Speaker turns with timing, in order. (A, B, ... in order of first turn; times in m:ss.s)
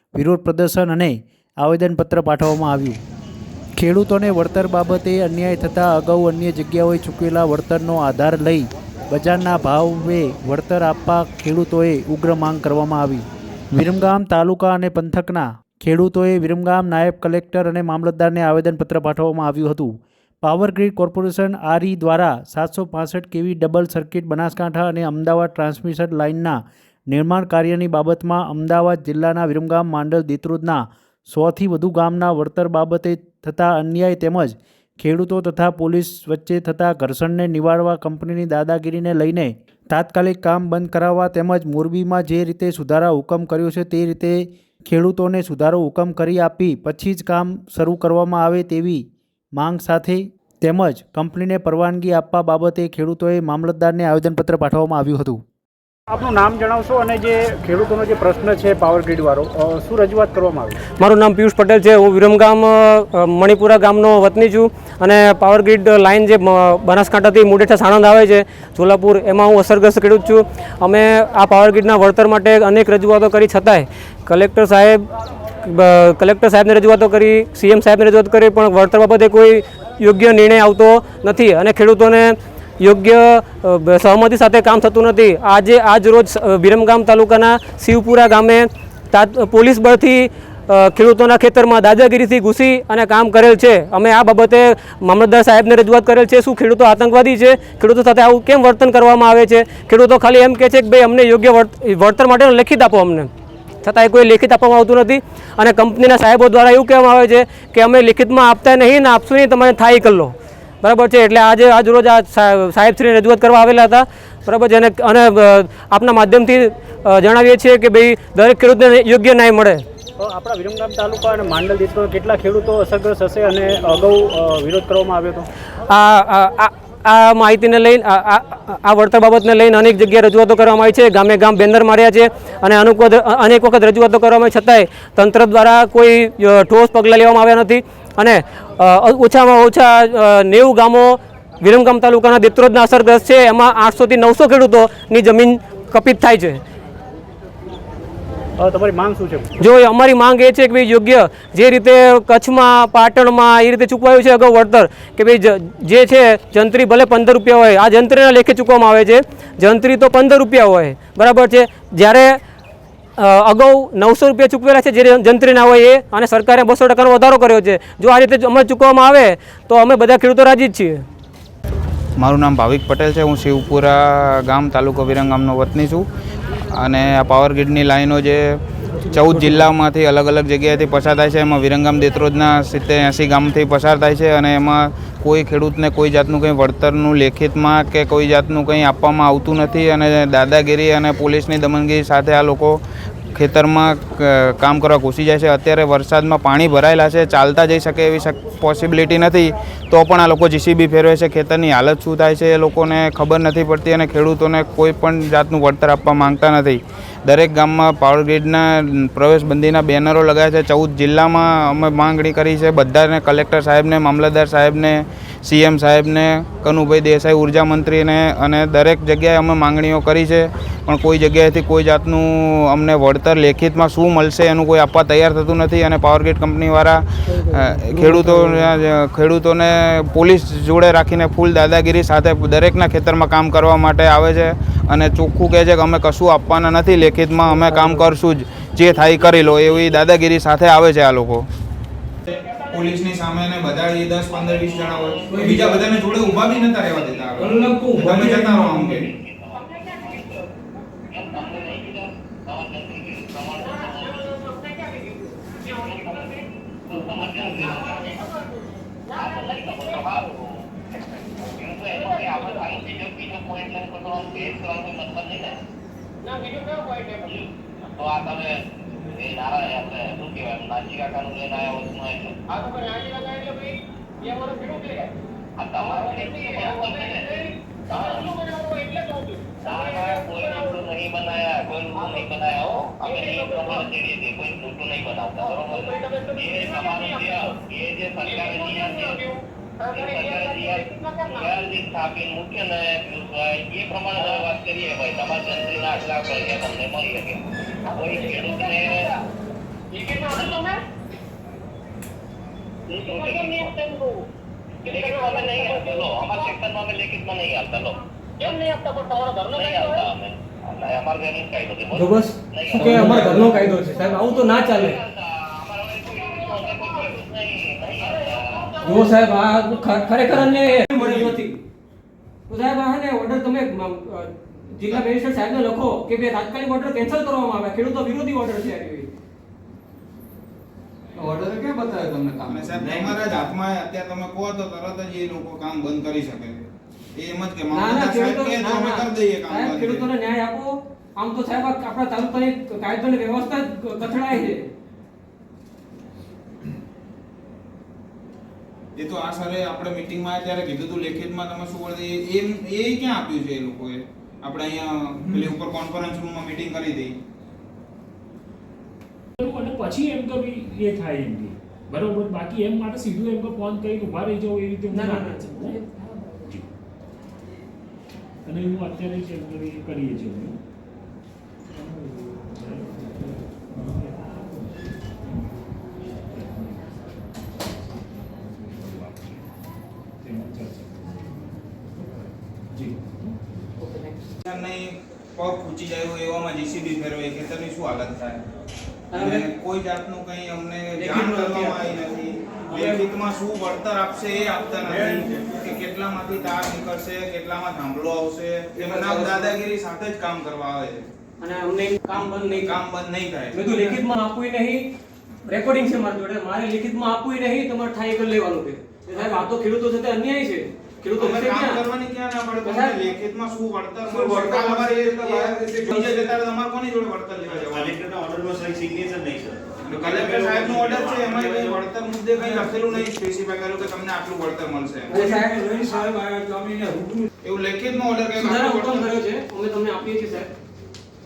0:00.2-0:03.0 A
0:03.8-0:49.0 A
0:49.6-0:55.4 A
0:56.1-1:00.8 B
1:01.0-1:15.0 C
1:15.6-1:43.3 C
1:43.8-1:59.8 C
2:00.2-2:05.4 B
2:05.9-2:26.6 C
2:28.6-2:29.5 B
2:29.6-2:42.4 C
2:43.2-2:51.0 C
2:52.2-2:56.0 D
2:56.7-3:12.8 D
2:59.1-2:59.7 C
3:13.3-4:01.4 D
3:47.3-3:48.7 C
3:57.6-3:58.0 C
4:02.4-4:09.1 D
4:05.3-4:05.9 C
4:07.4-4:09.0 C
4:08.9-4:10.5 E
4:11.1-4:14.4 E
4:15.6-4:18.1 E
4:17.5-4:17.8 C
4:19.2-4:20.4 E
4:21.4-4:25.6 E
4:27.4-4:32.4 E
4:35.6-4:38.4 E
4:39.6-4:49.3 E
4:49.8-4:59.2 E
5:02.9-5:03.7 E
5:04.8-5:08.5 E
5:09.5-5:18.8 E
5:11.9-5:15.0 C
5:12.9-5:13.3 F
5:18.8-5:21.6 C
5:20.9-5:21.3 F
5:22.5-5:29.1 C
5:31.2-5:33.5 F
5:32.4-5:40.1 D
5:37.7-5:44.7 C
5:49.0-5:57.1 D
5:59.4-6:06.7 G
6:04.9-6:05.8 C
6:08.4-6:10.6 G
6:11.7-6:19.5 G
6:20.2-6:23.4 G
6:23.8-6:24.2 C
6:24.4-6:28.4 D
6:29.1-6:29.4 C
6:29.1-6:41.1 D
6:31.0-6:32.0 C
6:32.7-6:33.1 C
6:34.9-6:35.5 H
6:39.0-6:39.4 F
6:41.4-6:42.8 C
6:42.1-6:43.8 D
6:43.5-6:44.9 C
6:45.4-6:51.8 C
6:51.2-6:58.0 D
6:52.6-6:53.0 C
6:54.1-6:56.4 F
6:57.5-7:01.8 H
6:59.8-7:05.2 D
7:02.3-7:02.9 F
7:05.1-7:07.3 F
7:05.1-7:05.7 C
7:07.4-7:09.1 D
7:08.3-7:10.5 C